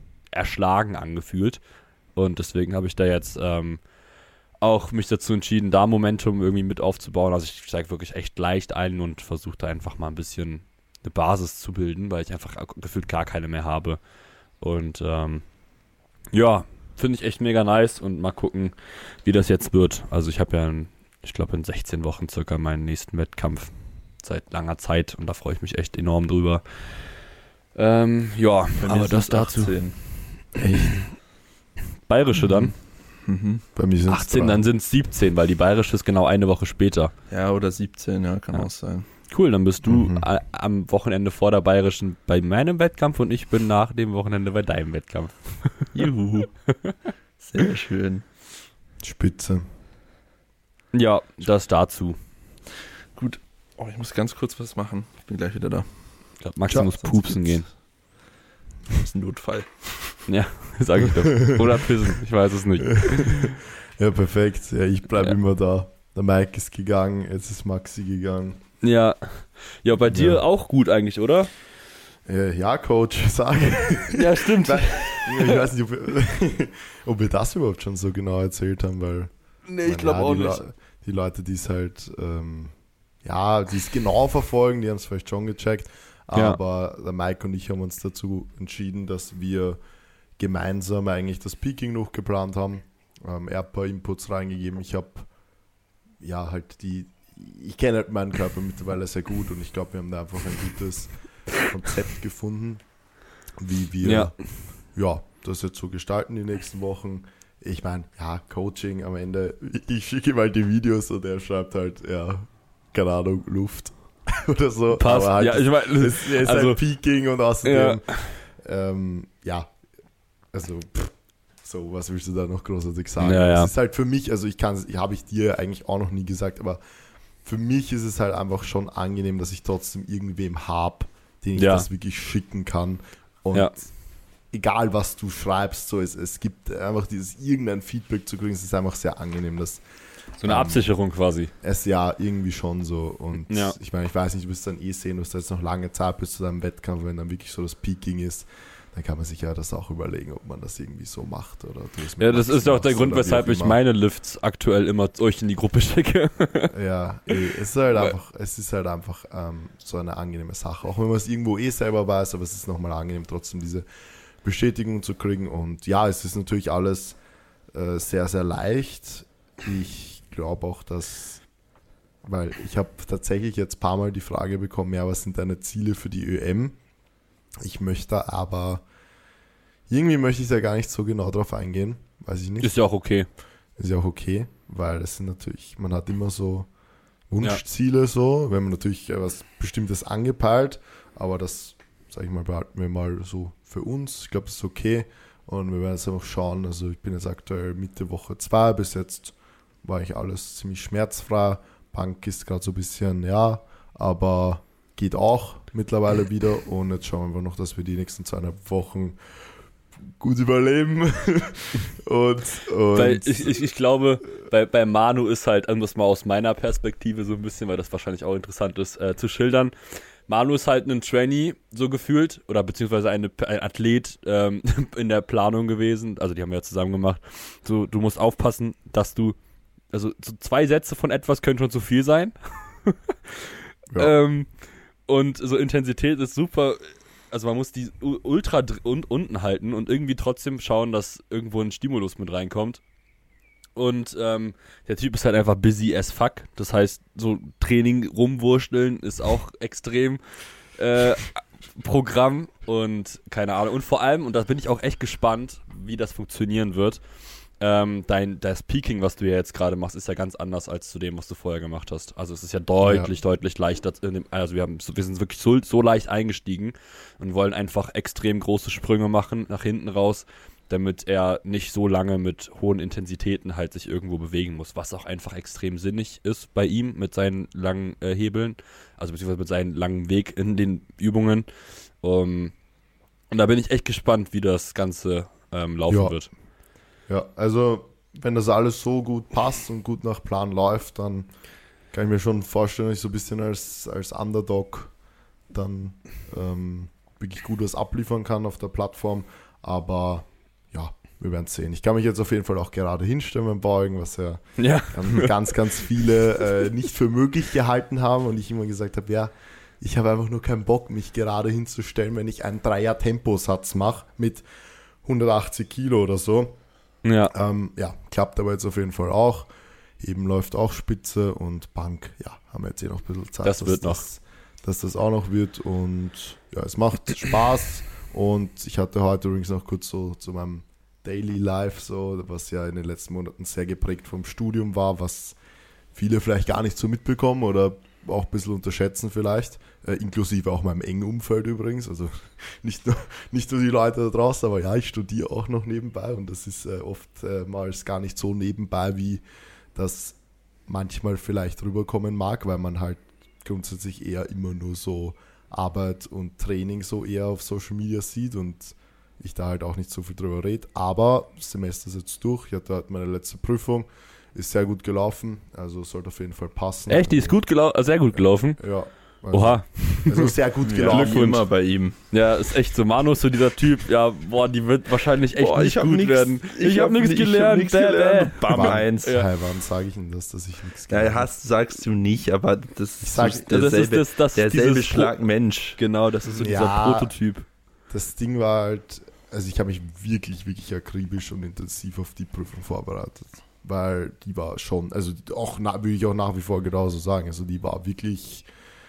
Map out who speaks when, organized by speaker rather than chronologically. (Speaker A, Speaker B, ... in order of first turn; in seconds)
Speaker A: 0.3-1.6, 2.1-3.9, 4.6-14.0, 14.6-15.5, 16.3-29.8, 32.1-32.8, 34.1-37.1, 38.5-46.0, 50.9-52.2, 56.4-57.7, 60.3-63.6, 68.8-71.5, 74.1-75.6, 79.7-80.6, 86.3-86.6, 104.0-104.4, 115.0-116.8, 117.6-118.4, 123.2-123.7, 131.6-131.9, 140.4-141.5, 143.5-143.8, 152.2-156.7, 182.6-183.3, 212.9-229.4, 229.9-234.5, 235.1-242.8, 243.8-281.5, 282.0-282.6, 283.3-286.3, 304.6-305.5, 317.0-317.3, 323.4-324.0, 366.9-379.3, 383.2-385.1, 385.8-387.5
Speaker B: 28.8-30.0, 33.2-33.6, 37.3-39.1, 45.9-46.7, 47.4-48.2, 53.1-56.4, 57.0-57.7, 59.0-60.3, 370.7-372.0, 375.4-379.2, 380.9-385.8
Speaker C: 30.6-31.1, 33.8-34.6, 39.8-40.3, 49.0-49.6, 56.7-56.9, 63.0-68.6, 70.1-70.4, 72.2-89.8, 90.4-95.3, 96.2-102.9, 103.6-119.7, 120.5-126.8, 127.4-133.9, 134.5-139.8, 140.4-140.9, 141.6-153.8, 156.7-163.9, 164.4-167.2, 167.7-171.5, 172.2-176.8, 177.6-178.8, 179.9-182.8, 183.8-186.7, 187.3-213.6, 262.8-263.1, 285.9-286.3, 287.1-291.3, 291.9-314.4, 315.0-316.7, 317.3-335.4, 335.9-349.2, 349.8-367.4, 368.2-371.3, 378.5-381.3, 383.0-383.5, 386.4-387.1, 387.9-398.5